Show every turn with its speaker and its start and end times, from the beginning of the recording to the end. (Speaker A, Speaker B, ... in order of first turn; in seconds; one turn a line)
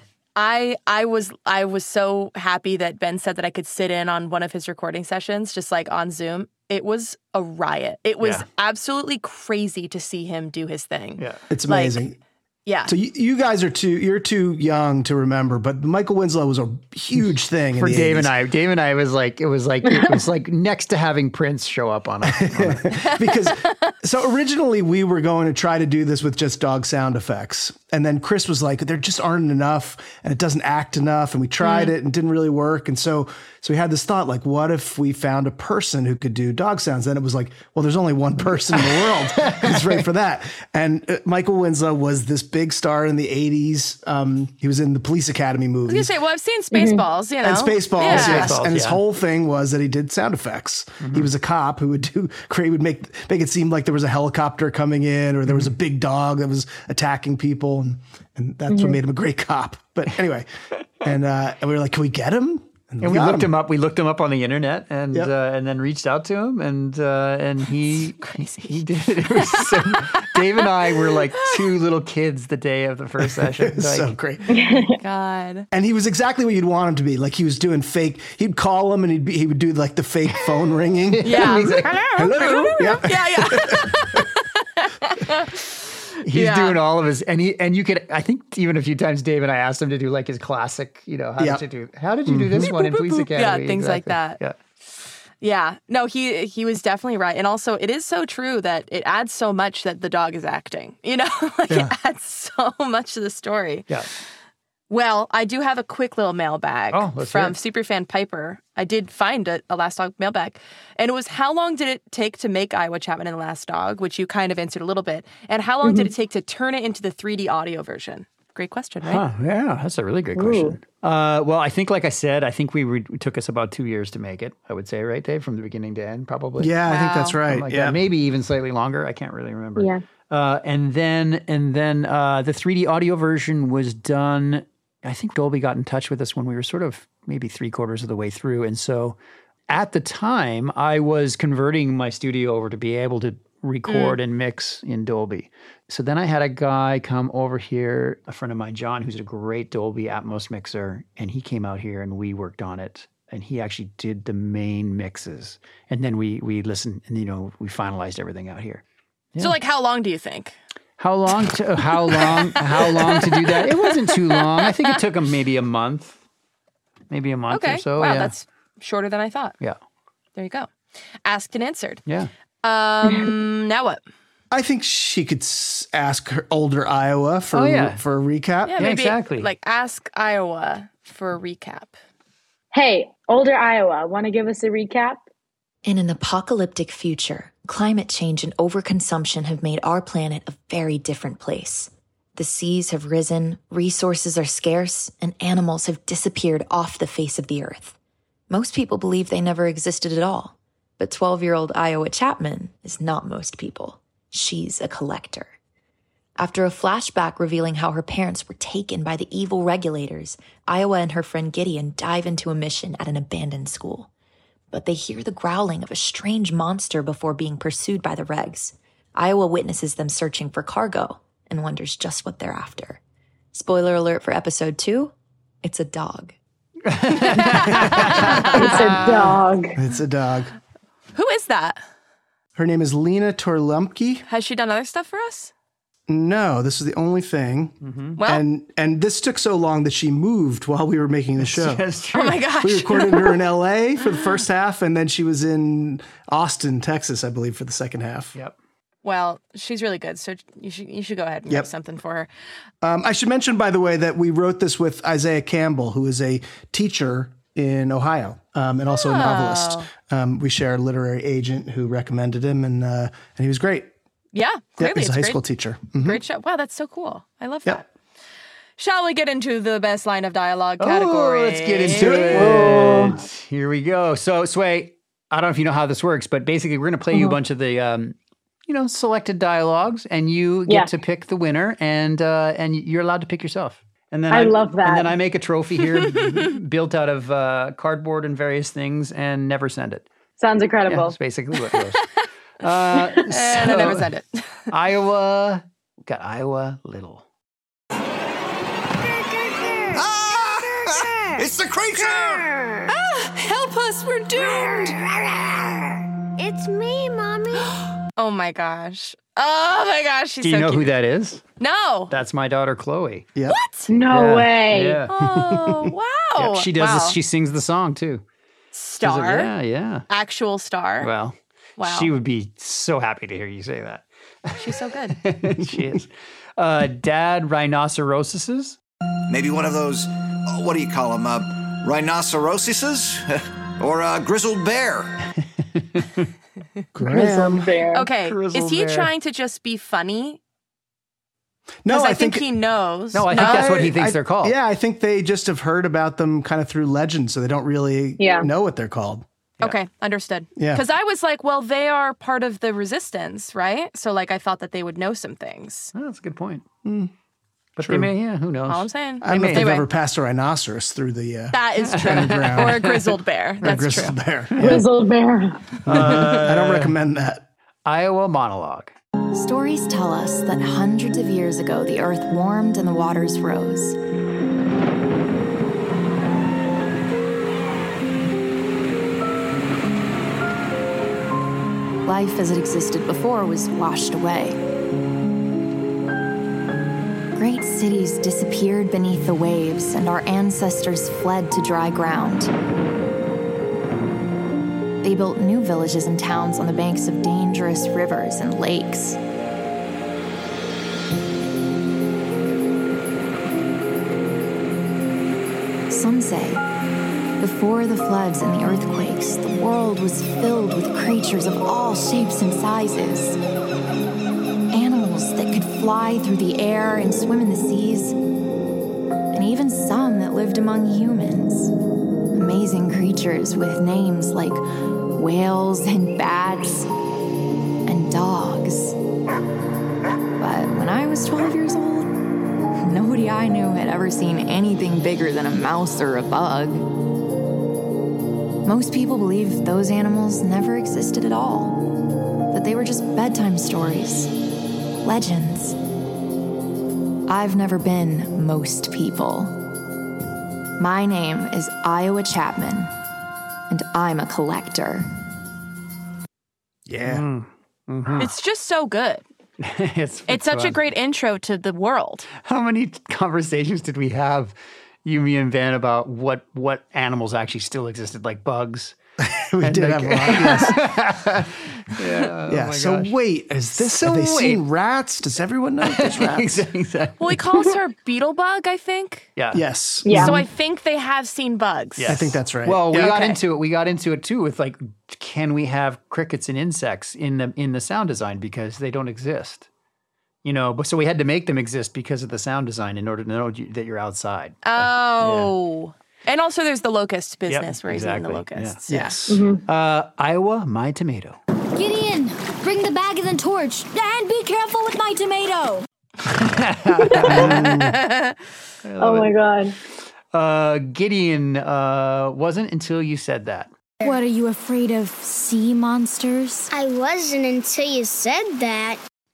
Speaker A: 0.3-12.0
Speaker B: 11.5-12.2
Speaker A: 12.7-12.9
Speaker B: 12.9-18.3
Speaker C: 17.8-22.9
Speaker B: 22.2-46.1
Speaker A: 22.9-23.9
Speaker A: 31.6-31.9
Speaker C: 39.4-40.0
Speaker A: 45.9-48.5
Speaker D: 46.7-47.0
Speaker B: 47.4-60.5
Speaker C: 48.0-49.0
Speaker C: 51.0-51.3
Speaker D: 58.7-59.0
Speaker B: 61.0-63.5
Speaker C: 63.0-74.1
Speaker A: 68.2-68.8
Speaker A: 69.3-71.6
Speaker B: 73.2-74.5
Speaker D: 74.5-74.9
Speaker A: 74.9-75.7
Speaker B: 75.7-84.2
Speaker C: 81.1-82.2
Speaker A: 81.2-86.8
Speaker C: 86.2-94.5
Speaker B: 92.2-92.7
Speaker A: 92.6-94.4
Speaker A: 95.4-103.9
Speaker A: 104.9-119.2
Speaker C: 106.9-107.5
Speaker D: 115.8-116.1
Speaker C: 119.0-126.7
Speaker D: 120.3-120.8
Speaker B: 126.6-128.0
Speaker A: 126.9-127.4
Speaker C: 127.5-139.2
Speaker D: 129.8-130.0
Speaker C: 139.7-158.8
Speaker A: 143.9-144.2
Speaker A: 159.4-160.5
Speaker C: 161.0-166.2
Speaker A: 162.1-165.0
Speaker C: 167.1-168.3
Speaker A: 167.5-169.5
Speaker A: 170.3-170.7
Speaker A: 171.2-172.0
Speaker C: 172.1-172.3
Speaker A: 172.6-174.0
Speaker B: 174.5-178.8
Speaker C: 177.5-178.0
Speaker A: 178.6-181.9
Speaker C: 178.8-179.5
Speaker D: 182.7-185.2
Speaker E: 185.8-197.9
Speaker E: 198.5-205.5
Speaker E: 206.4-214.1
Speaker E: 214.7-223.0
Speaker E: 223.5-226.3
Speaker C: 226.8-229.4
Speaker A: 227.1-228.7
Speaker B: 227.9-228.2
Speaker D: 228.5-229.8
Speaker B: 229.8-230.5
Speaker A: 231.1-231.8
Speaker B: 232.6-234.2
Speaker A: 234.3-235.5
Speaker B: 236.1-241.8
Speaker C: 237.8-238.2
Speaker A: 238.2-238.4
Speaker C: 241.4-242.4
Speaker A: 242.1-243.4
Speaker B: 242.6-248.3
Speaker A: 249.0-252.3
Speaker B: 252.8-263.9
Speaker A: 258.9-259.9
Speaker A: 264.3-265.4
Speaker B: 264.8-266.2
Speaker A: 266.0-267.9
Speaker A: 268.8-272.5
Speaker C: 270.8-278.1
Speaker B: 271.9-273.2
Speaker D: 272.4-273.2
Speaker C: 278.7-290.1
Speaker D: 284.3-285.1
Speaker D: 290.4-291.1
Speaker C: 290.9-292.0
Speaker A: 291.6-292.0
Speaker C: 292.6-294.1
Speaker A: 293.2-294.5
Speaker C: 294.7-297.2
Speaker F: 299.9-302.6
Speaker A: 302.9-305.0
Speaker G: 304.9-305.6
Speaker G: 306.4-307.7
Speaker A: 308.2-310.9
Speaker C: 310.4-311.4
Speaker A: 311.6-312.1
Speaker C: 312.1-313.3
Speaker A: 313.5-313.9
Speaker D: 313.9-315.0
Speaker C: 314.1-315.1
Speaker A: 315.1-317.2
Speaker B: 315.2-315.8
Speaker C: 316.4-318.2
Speaker A: 318.7-319.5
Speaker C: 319.0-320.1
Speaker A: 320.1-321.1
Speaker C: 321.0-328.8
Speaker A: 321.8-322.1
Speaker A: 324.6-325.2
Speaker F: 329.3-335.1
Speaker C: 335.7-336.1
Speaker B: 336.9-337.7
Speaker D: 337.0-338.1
Speaker A: 337.9-340.4
Speaker C: 338.2-339.1
Speaker B: 341.8-342.5
Speaker A: 341.9-343.9
Speaker C: 343.1-344.5
Speaker B: 343.3-349.2
Speaker D: 348.2-348.5
Speaker A: 349.6-355.9
Speaker B: 350.6-350.8
Speaker C: 355.9-356.6
Speaker B: 356.8-357.1
Speaker C: 357.8-359.7
Speaker B: 357.8-358.1
Speaker A: 358.7-359.9
Speaker B: 359.2-362.9
Speaker A: 361.5-364.2
Speaker C: 362.1-363.0
Speaker B: 363.6-364.9
Speaker D: 364.6-365.6
Speaker C: 365.9-367.0
Speaker B: 365.9-367.4
Speaker C: 367.8-368.9
Speaker E: 369.3-374.0
Speaker E: 382.0-384.6
Speaker E: 387.3-392.5
Speaker E: 395.0-399.2
Speaker E: 405.9-406.6
Speaker E: 407.4-413.4
Speaker E: 414.7-418.2
Speaker E: 419.3-421.7
Speaker E: 422.3-426.9
Speaker E: 427.9-429.0
Speaker E: 430.4-432.1
Speaker E: 432.8-436.9
Speaker E: 438.6-441.9
Speaker E: 442.5-444.3
Speaker E: 445.0-445.8
Speaker E: 447.3-449.6
Speaker E: 450.8-452.9
Speaker E: 453.7-455.1
Speaker B: 456.9-457.2
Speaker C: 457.0-458.3
Speaker A: 458.2-459.2
Speaker C: 459.6-460.8
Speaker A: 460.3-462.3
Speaker C: 462.4-469.0
Speaker B: 469.2-470.9
Speaker C: 469.6-473.1
Speaker B: 472.5-476.6
Speaker C: 473.8-474.6
Speaker C: 475.8-477.4
Speaker A: 477.2-479.3
Speaker C: 479.4-479.6
Speaker B: 479.5-480.4
Speaker D: 480.0-480.4
Speaker A: 480.1-482.1
Speaker C: 482.0-489.7
Speaker B: 482.1-483.1
Speaker A: 482.9-483.4
Speaker C: 490.4-495.5
Speaker A: 494.6-499.2
Speaker C: 497.5-501.4
Speaker B: 498.9-499.4
Speaker D: 499.3-499.6
Speaker H: 501.7-505.8
Speaker C: 506.3-508.0
Speaker D: 507.0-507.6
Speaker B: 507.2-508.0
Speaker A: 507.7-508.4
Speaker C: 508.8-509.3
Speaker D: 509.0-509.7
Speaker C: 510.3-513.7
Speaker H: 514.0-516.7
Speaker G: 516.7-519.0